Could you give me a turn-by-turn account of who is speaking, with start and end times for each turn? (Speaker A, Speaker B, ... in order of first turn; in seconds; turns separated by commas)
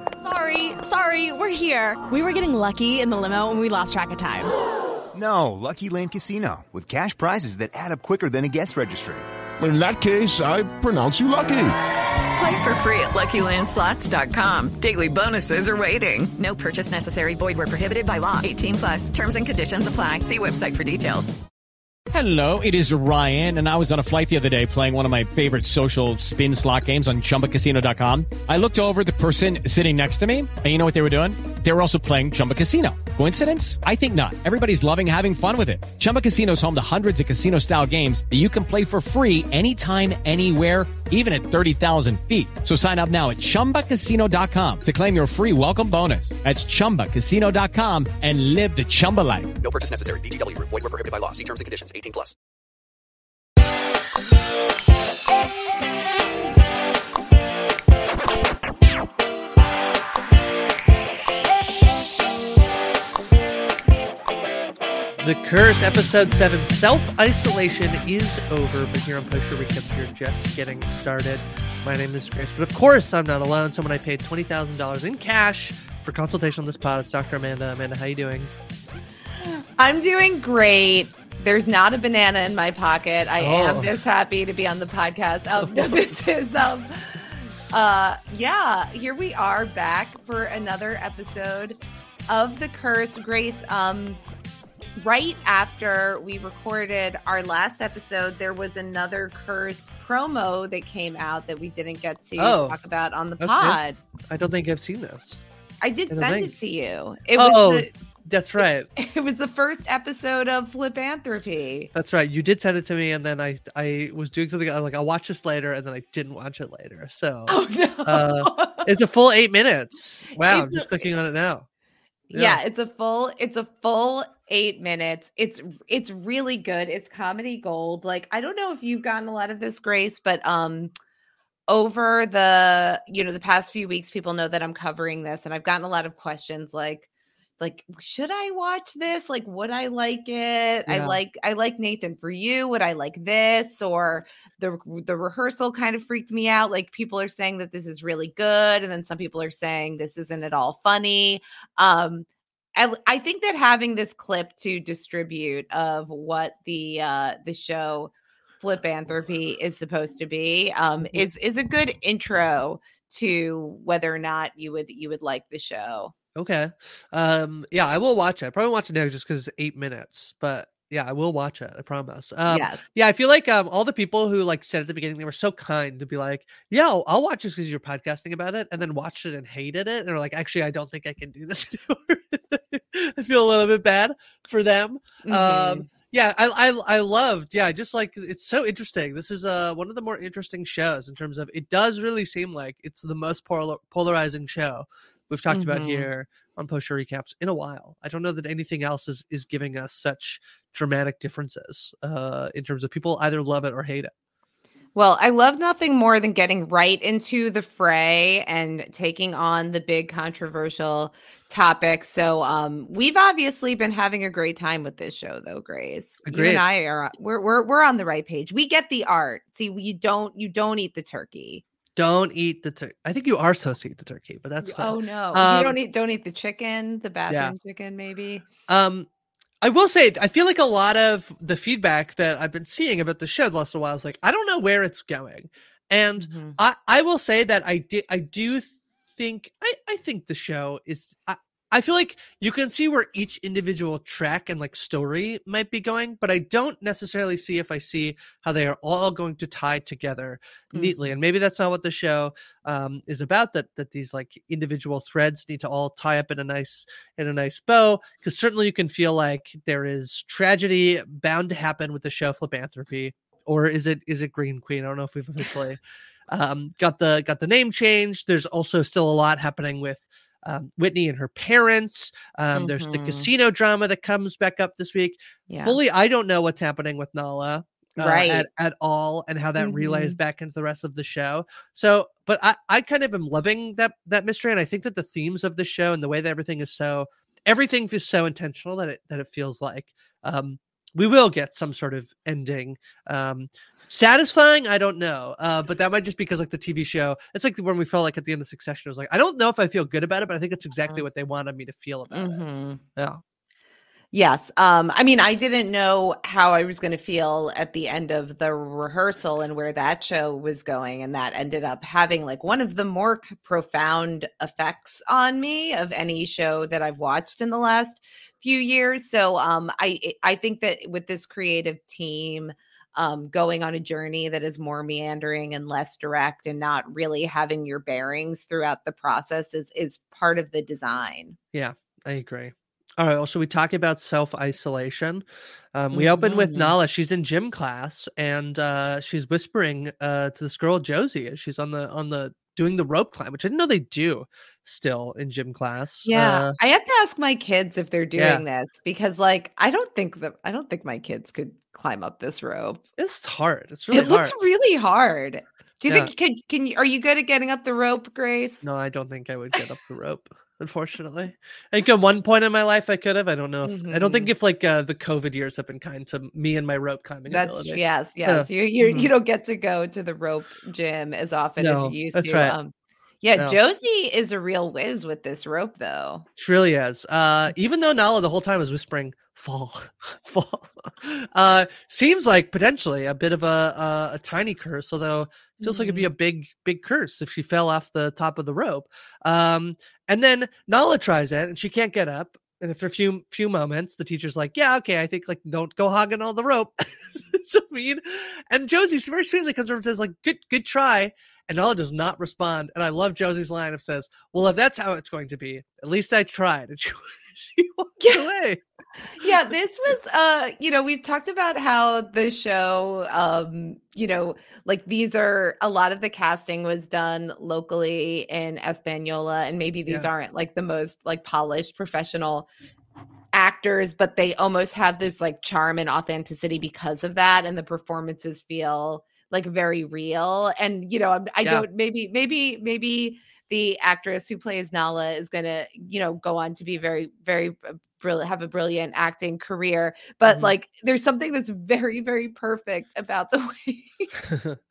Speaker A: 0.2-4.5, Speaker B: 5.1-9.2, Speaker C: 9.6-11.8, Speaker D: 12.3-21.4, Speaker E: 22.1-49.5, Speaker F: 49.6-52.3, Speaker G: 65.2-78.5, Speaker H: 79.4-94.2, Speaker G: 83.4-83.9, Speaker G: 85.6-86.0, Speaker H: 95.0-104.0, Speaker G: 102.4-102.8, Speaker G: 103.4-103.8, Speaker G: 104.3-105.4, Speaker H: 105.8-107.9, Speaker G: 106.1-106.5, Speaker G: 107.4-108.9, Speaker H: 109.0-111.9, Speaker G: 111.9-121.7, Speaker H: 117.5-118.9, Speaker H: 120.4-121.1, Speaker H: 122.3-130.9, Speaker G: 122.3-122.6, Speaker H: 131.7-137.1, Speaker H: 137.6-166.1, Speaker G: 140.9-141.2, Speaker G: 166.4-204.1, Speaker H: 172.5-172.8, Speaker H: 185.2-185.9, Speaker H: 195.5-196.1, Speaker H: 204.9-221.6, Speaker G: 216.3-216.6, Speaker G: 222.0-225.8, Speaker H: 224.6-228.4, Speaker G: 227.3-227.5, Speaker G: 228.7-229.1, Speaker G: 229.6-302.4, Speaker H: 236.2-236.6, Speaker H: 250.7-251.2, Speaker H: 272.5-273.3, Speaker H: 275.5-275.8, Speaker H: 278.0-278.5, Speaker H: 279.6-280.2, Speaker H: 302.1-302.8, Speaker H: 304.1-331.4, Speaker G: 331.5-346.5, Speaker H: 335.9-336.8, Speaker H: 346.1-352.8, Speaker G: 348.2-348.4, Speaker G: 353.0-354.4, Speaker H: 353.9-358.6, Speaker G: 358.6-369.1, Speaker H: 363.6-364.3, Speaker H: 367.3-376.3, Speaker G: 371.6-372.6, Speaker G: 376.4-408.6, Speaker H: 385.6-386.1, Speaker H: 408.0-408.3, Speaker H: 409.2-422.5, Speaker H: 423.3-444.1, Speaker G: 440.3-440.5, Speaker G: 444.3-444.6